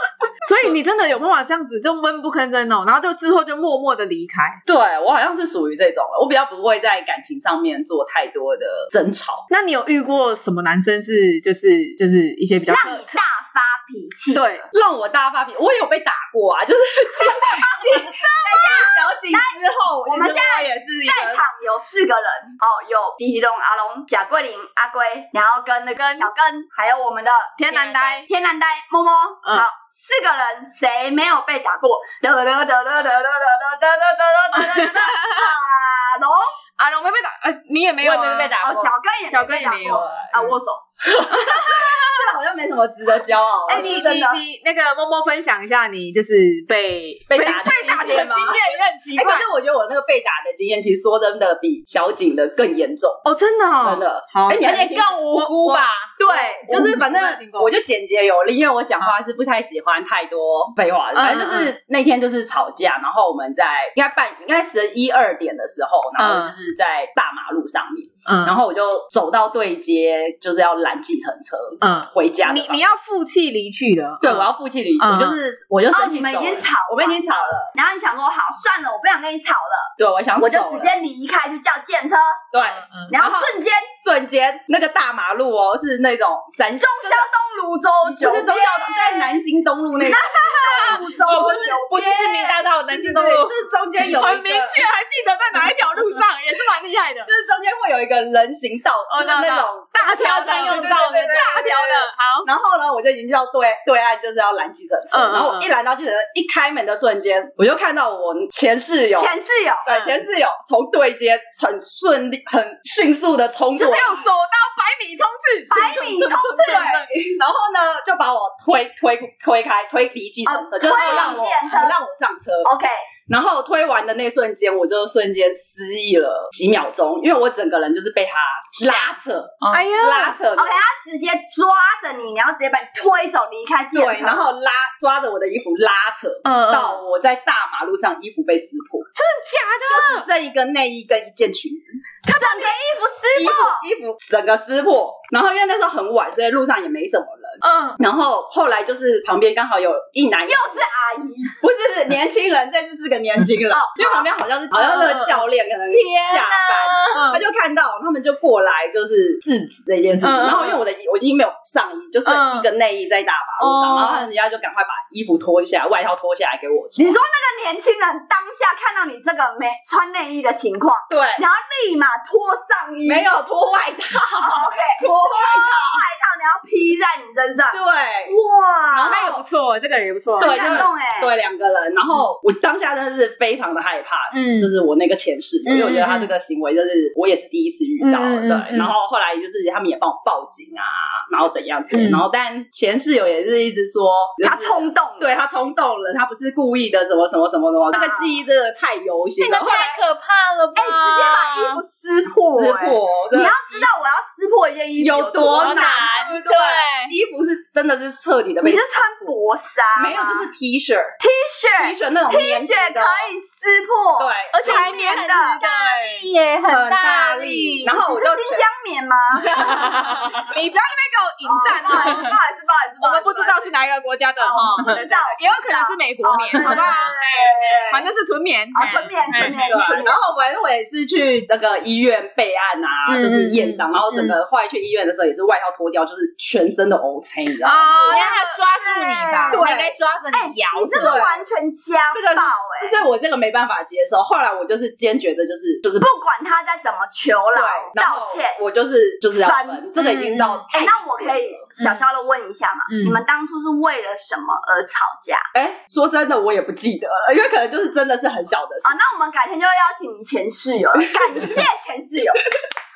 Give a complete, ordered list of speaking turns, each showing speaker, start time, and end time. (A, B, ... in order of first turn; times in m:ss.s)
0:00.4-0:04.6 A
0:04.7-0:09.4 B
0:09.5-0:13.1 A
0:12.7-0:14.7 C
0:14.3-0:14.6 A
0:14.7-0:21.4 B
0:17.8-0:18.8 A
0:18.4-0:36.6 C
0:26.0-0:26.3 A
0:27.6-0:28.3 A
0:27.9-0:28.2 D
0:34.6-0:35.4 A
0:36.8-0:38.6 A
0:38.0-0:38.9 B
0:38.6-0:40.8 C
0:39.3-0:40.5 A
0:41.0-0:44.0 B
0:41.3-0:42.3 A
0:43.7-0:44.4 C
0:43.7-0:49.5 A
0:47.3-0:53.2 B
0:53.2-0:57.7 A
0:53.8-0:55.2 B
0:54.6-0:56.1 D
0:56.2-1:12.8 B
1:01.2-1:01.7 A
1:06.2-1:06.5 A
1:08.3-1:08.6 A
1:11.8-1:15.4 A
1:14.2-1:17.7 B
1:15.9-1:22.4 C
1:20.0-1:21.0 B
1:22.5-1:27.3 B
1:23.1-1:23.9 C
1:26.8-1:29.4 C
1:28.0-1:31.8 B
1:30.1-1:32.6 C
1:30.1-1:31.0 A
1:31.2-1:33.5 D
1:32.9-1:34.8 B
1:34.0-1:37.3 A
1:35.6-1:36.0 B
1:37.3-1:49.3 B
1:39.1-1:42.5 A
1:40.1-1:41.6 D
1:45.1-1:45.7 A
1:49.1-1:49.9 C
1:49.8-1:54.3 B
1:49.9-1:50.1 A
1:53.8-1:57.1 A
1:55.7-1:57.0 C
1:56.6-2:02.7 B
2:00.4-2:02.0 C
2:00.9-2:01.5 A
2:02.6-2:03.1 C
2:03.3-2:10.8 B
2:08.8-2:09.9 D
2:09.7-2:10.4 A
2:10.6-2:14.5 C
2:13.9-2:19.1 B
2:16.4-2:17.0 A
2:19.2-2:20.3 A
2:19.8-2:22.0 B
2:22.3-2:22.8 A
2:22.3-2:23.8 C
2:23.4-2:30.9 B
2:27.6-2:28.0 A
2:30.5-2:31.6 C
2:31.6-2:47.2 B
2:33.8-2:34.3 C
2:34.7-2:35.4 A
2:35.9-2:37.3 D
2:37.1-2:37.4 A
2:40.2-2:40.8 A
2:42.3-2:42.7 A
2:43.6-2:44.3 A
2:47.0-2:53.3 C
2:51.1-2:51.4 B
2:53.1-2:56.0 B
2:54.4-2:59.4 C
2:57.7-2:58.3 B
2:58.9-2:59.4 B
2:59.1-3:00.8 A
3:00.4-3:01.3 C
3:00.4-3:19.9 B
3:04.3-3:04.7 A
3:05.7-3:06.3 A
3:08.0-3:08.9 A
3:11.9-3:12.2 A
3:14.4-3:15.3 C
3:17.9-3:18.4 C
3:19.4-3:21.8 D
3:19.7-3:19.9 C
3:20.8-3:26.1 C
3:22.5-3:23.9 B
3:25.0-3:29.3 B
3:25.6-3:27.1 D
3:28.6-3:30.5 C
3:30.0-3:31.2 B
3:31.2-3:35.6 C
3:31.8-3:33.3 B
3:34.2-3:34.8 B
3:34.5-3:36.3 A
3:34.7-3:37.9 D
3:36.7-3:38.7 B
3:38.0-3:40.0 C
3:39.5-3:40.5 B
3:39.8-3:42.4 A
3:41.4-3:43.7 C
3:43.0-3:49.6 A
3:44.4-3:48.1 C
3:46.6-3:46.9 B
3:48.7-3:50.2 C
3:49.3-3:58.0 B
3:53.1-3:54.4 A
3:57.6-3:58.6 A
3:57.9-4:01.2 D
3:58.1-3:59.7 C
3:59.5-4:00.0 B
4:00.3-4:03.0 C
4:00.9-4:01.4 B
4:02.1-4:06.1 B
4:06.0-4:08.6 C
4:07.5-4:11.6 B
4:09.4-4:09.8 C
4:10.0-4:10.6 A
4:10.7-4:15.4 C
4:12.9-4:13.2 A
4:15.5-4:19.0 B
4:18.8-4:22.4 C